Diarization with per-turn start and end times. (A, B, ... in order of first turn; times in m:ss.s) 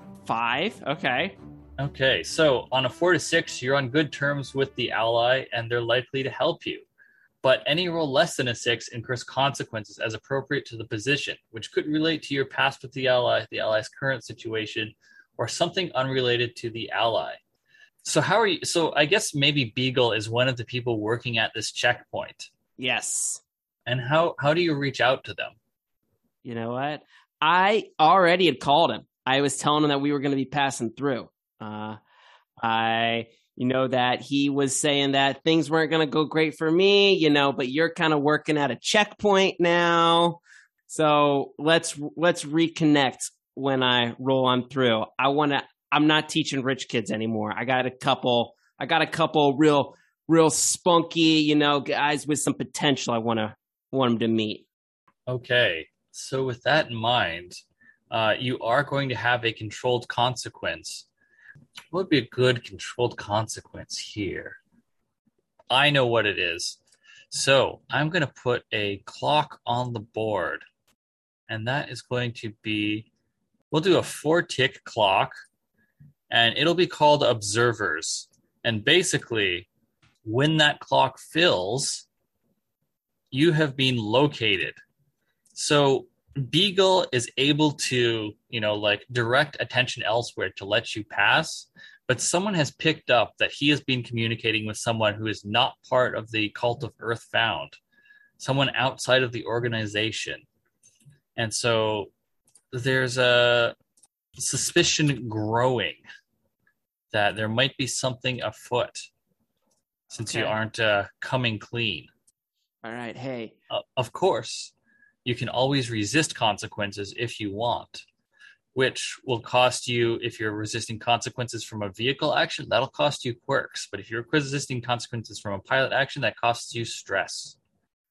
0:00.2-0:01.4 A
0:01.8-0:06.8 B
0:07.4-0:17.4 B
0:18.0-0:22.5 B
0:22.8-0:23.4 A
0:23.8-0:25.6 B
0:26.4-0:32.0 A
0:32.6-0:54.7 A
0:55.3-0:57.6 B
0:58.1-1:01.0 B
1:01.9-1:04.6 B
1:05.7-1:06.8 B
1:07.3-1:10.6 B
1:11.5-1:13.1 B
1:13.7-1:15.3 B
1:16.3-1:19.7 B
1:20.2-1:22.0 B
1:23.3-1:24.8 B
1:25.5-1:37.8 B
1:38.4-1:40.4 B
1:41.4-1:42.1 B
1:42.7-1:43.7 B
1:44.4-1:46.0 B
1:47.1-1:49.1 B
1:50.1-1:52.1 B
1:50.2-1:50.5 A
1:52.8-1:53.5 A
1:53.7-1:54.7 B
1:55.2-1:58.0 B
1:58.7-2:07.6 B